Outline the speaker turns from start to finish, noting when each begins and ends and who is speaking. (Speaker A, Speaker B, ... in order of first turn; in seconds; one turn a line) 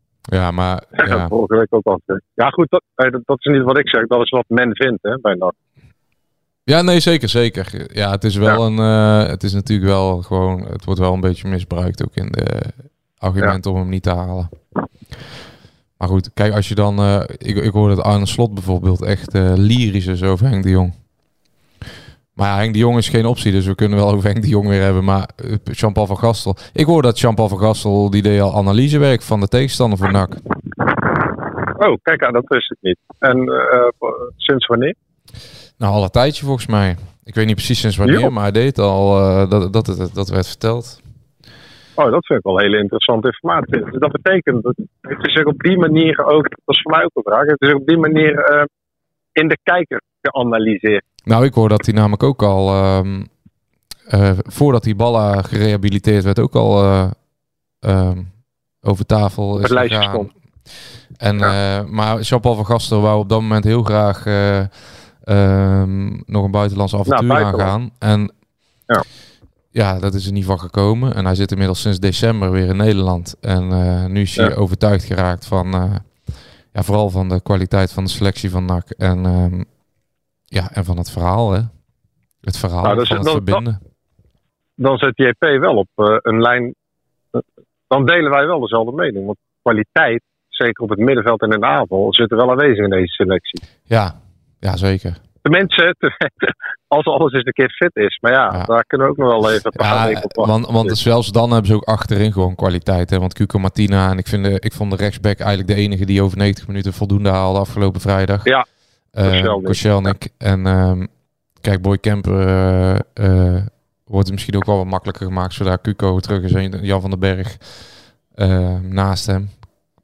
Speaker A: 0.3-1.3
Speaker B: 1.0-5.5
Speaker A: 6.7-14.5
Speaker A: 16.0-20.9
Speaker A: 22.4-30.4
Speaker B: 31.8-35.0
Speaker A: 35.8-41.0
Speaker B: 42.0-48.7
Speaker B: 49.4-51.0
Speaker A: 51.3-53.3
Speaker A: 54.1-57.2
Speaker A: 57.8-60.3
Speaker B: 59.6-60.3
Speaker A: 61.2-68.3
Speaker B: 67.1-67.7
Speaker A: 69.7-79.7
Speaker A: 80.5-81.7
Speaker A: 82.4-83.8
Speaker B: 82.8-83.6
Speaker B: 84.8-86.7
Speaker B: 87.3-93.6
Speaker A: 93.9-95.2
Speaker B: 95.4-100.9
Speaker A: 99.8-108.5
Speaker A: 109.1-117.8
Speaker B: 109.2-109.8
Speaker A: 118.3-119.6